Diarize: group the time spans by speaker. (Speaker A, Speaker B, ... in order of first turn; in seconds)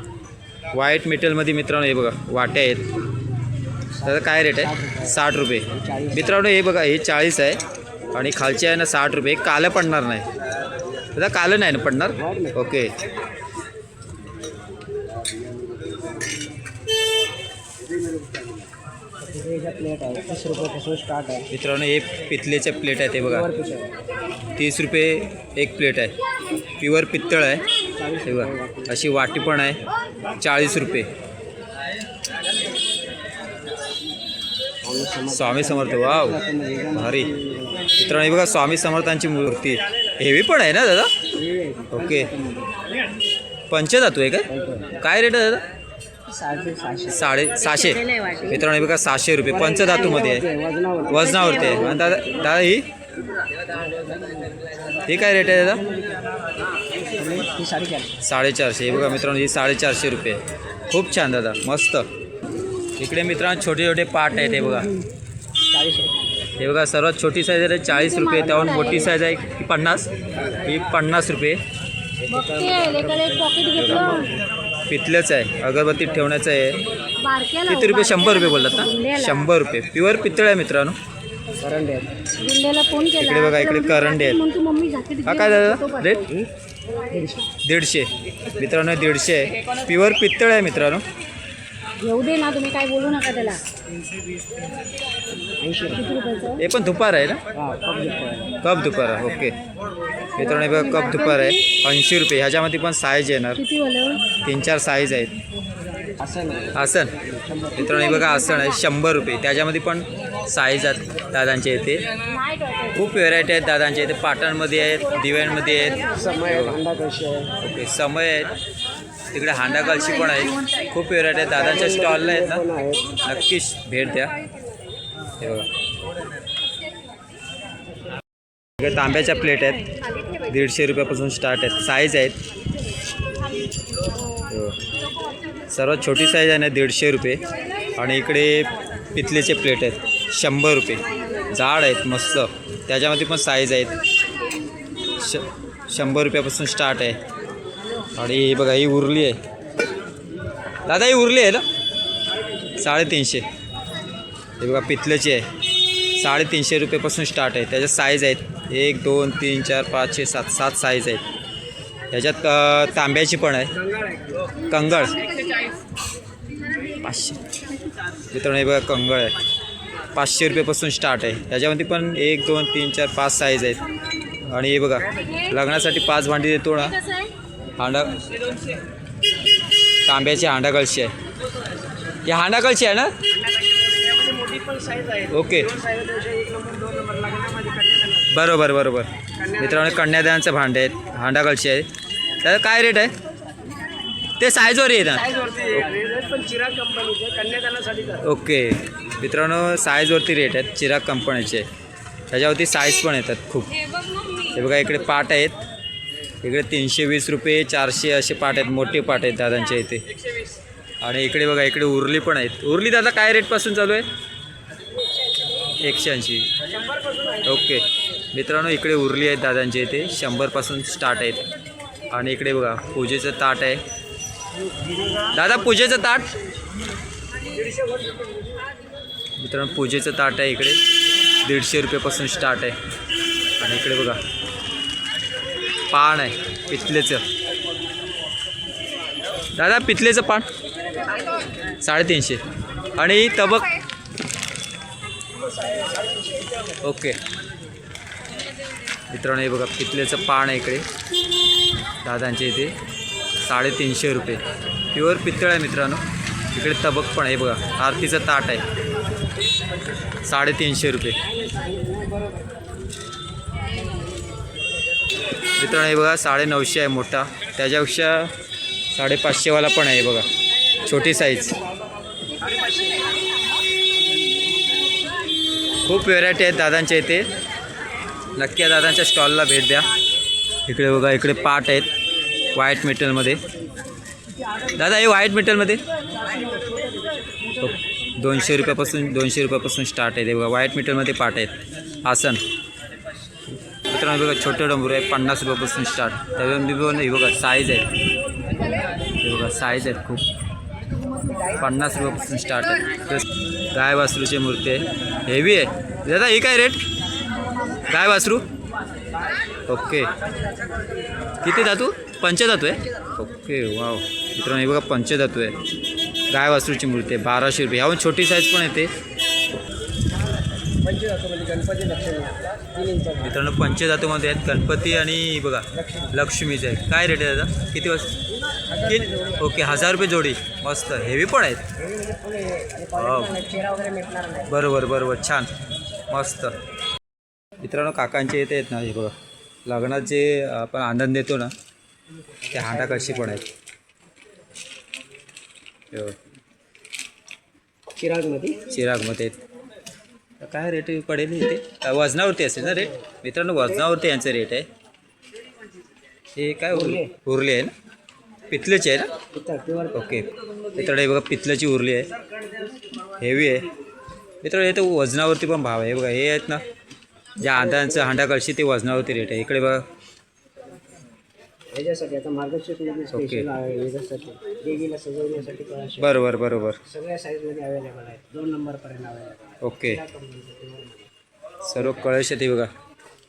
Speaker A: 0.7-2.9, 4.0-7.6, 8.1-10.3, 11.1-12.9, 21.5-23.5, 24.6-26.1, 26.8-27.6, 28.2-29.8, 30.4-31.1, 35.3-36.4, 36.9-37.3, 38.0-41.1, 41.9-42.3, 43.7-44.5, 45.0-45.6, 47.1-50.4, 51.1-52.9, 55.1-55.8, 58.2-62.0, 63.0-64.9, 66.6-70.1, 70.6-71.6, 73.8-74.3, 74.9-76.8, 77.7-81.0, 83.2-84.4, 85.2-86.2, 87.6-91.0, 96.6-97.4, 98.6-99.6, 100.3-103.6, 104.4-105.3, 106.7-107.1, 107.8-112.0, 112.9-116.8, 117.6-118.5, 119.3-122.6, 123.2-124.3, 125.4-125.7, 128.8-129.9, 130.5-132.3, 134.5-134.8, 135.7-137.4, 137.9-143.9, 145.2-147.2, 148.2-149.4, 150.9-151.6, 152.8-153.4, 154.6-155.4, 156.2-161.2, 162.1-163.7, 164.7-165.4, 166.9-167.4, 168.3-169.3, 170.1-173.8, 174.5-177.0, 177.8-178.3, 180.1-181.1, 182.2-183.1, 185.3-185.7, 188.3-191.9, 192.4-193.1, 194.4-195.9, 198.2-201.7, 202.3-203.8, 204.5-205.6, 206.4-210.0, 211.0-214.1, 215.8-216.5, 217.4-221.4, 222.1-223.8, 225.3-226.3, 229.4-230.8, 231.4-232.7, 233.6-234.2, 235.9-237.2, 239.6-240.4, 241.8-242.4, 243.0-243.7, 246.8-247.2, 249.1-250.8, 252.0-252.7, 253.4-254.4, 254.9-258.6, 260.2-261.2, 265.6-268.3, 268.9-270.3, 270.8-271.6, 275.8-277.3, 278.4-279.9, 280.6-281.9, 282.5-283.4, 284.7-285.8, 287.6-291.5, 292.0-292.4, 293.9-297.9, 299.2-300.2, 301.5-306.8, 307.9-308.4, 309.7-310.1, 311.4-315.6, 316.3-318.9, 323.2-328.1, 328.8-331.6, 332.9-333.4, 334.5-335.5, 336.1-336.5, 337.6-339.1, 339.7-341.5, 342.5-343.4, 348.7-349.4, 350.4-354.7, 356.4-357.7, 358.5-359.1, 359.9-362.1, 363.2-363.7, 364.4-366.6, 367.4-369.8, 373.1-373.5, 376.0-376.8, 379.6-380.0, 381.6-382.7
Speaker B: 4.0-6.4, 12.2-12.6, 19.2-21.5, 23.2-23.9, 27.9-29.0, 34.8-38.0, 41.3-42.7, 44.5-45.0, 46.3-47.2, 48.2-48.6, 49.5-52.2, 53.7-56.2, 57.0-58.1, 65.7-66.3, 68.2-69.1, 72.2-74.3, 81.6-82.3, 87.1-87.5, 95.6-96.2, 97.5-98.6, 106.2-108.1, 116.0-117.5, 121.5-123.2, 163.7-164.5, 183.5-188.3, 189.4-190.0, 195.3-198.3, 216.7-217.4, 227.7-228.1, 261.2-262.5, 272.5-272.9, 320.8-323.4, 325.7-326.1, 328.5-329.4, 331.8-334.6, 342.5-343.4, 348.0-348.6, 352.6-352.9, 353.6-353.8, 356.7-357.1, 359.3-360.2, 371.7-376.3, 376.8-381.1
Speaker C: 47.7-48.5, 68.0-69.0, 72.3-74.3, 77.2-79.5, 82.4-86.2, 92.0-93.6, 96.0-96.6, 100.4-101.6, 103.6-104.2, 107.9-108.8, 112.3-113.0, 177.0-177.3